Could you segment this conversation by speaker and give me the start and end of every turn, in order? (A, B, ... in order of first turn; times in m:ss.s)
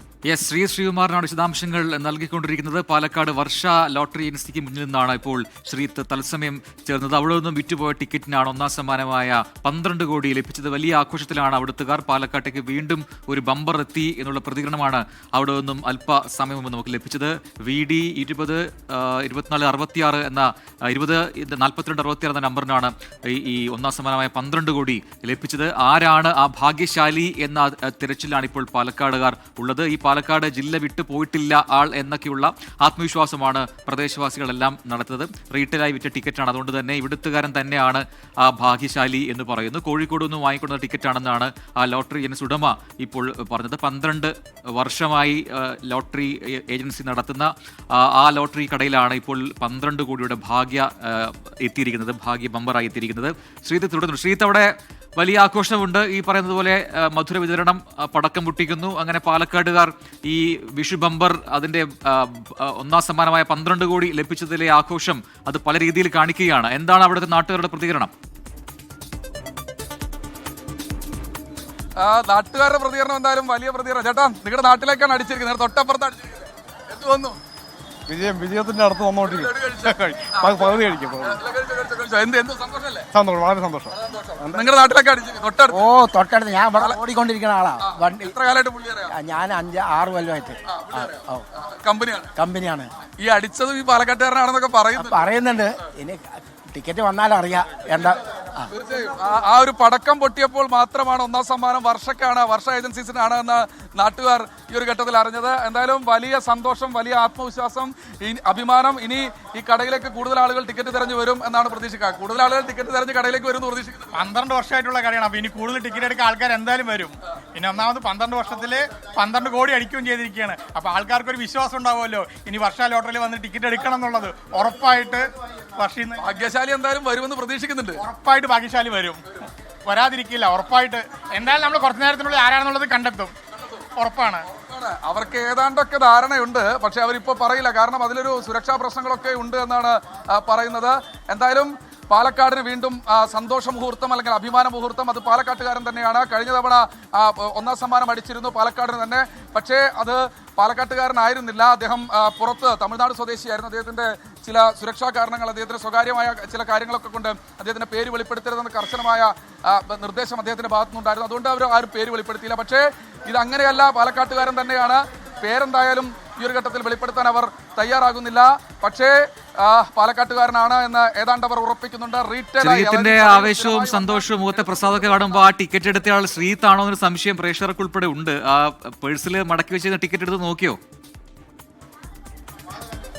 0:00.2-1:08.1 A
1:12.0-1:17.4 B
1:18.1-1:21.4 C
1:19.2-1:23.1 B
1:23.1-1:24.6 C
1:24.0-1:25.9 B
1:25.7-1:28.3 D
1:27.8-1:29.2 B
1:29.1-1:31.4 D
1:30.6-1:32.3 B
1:32.4-1:32.9 D
1:33.2-1:35.2 B
1:35.0-1:38.7 D
1:38.7-1:54.2 B
1:54.1-2:06.3 E
2:06.2-2:08.0 B
2:08.0-2:13.3 E
2:14.0-2:14.4 E
2:14.5-2:55.5 B
2:52.6-3:00.8 A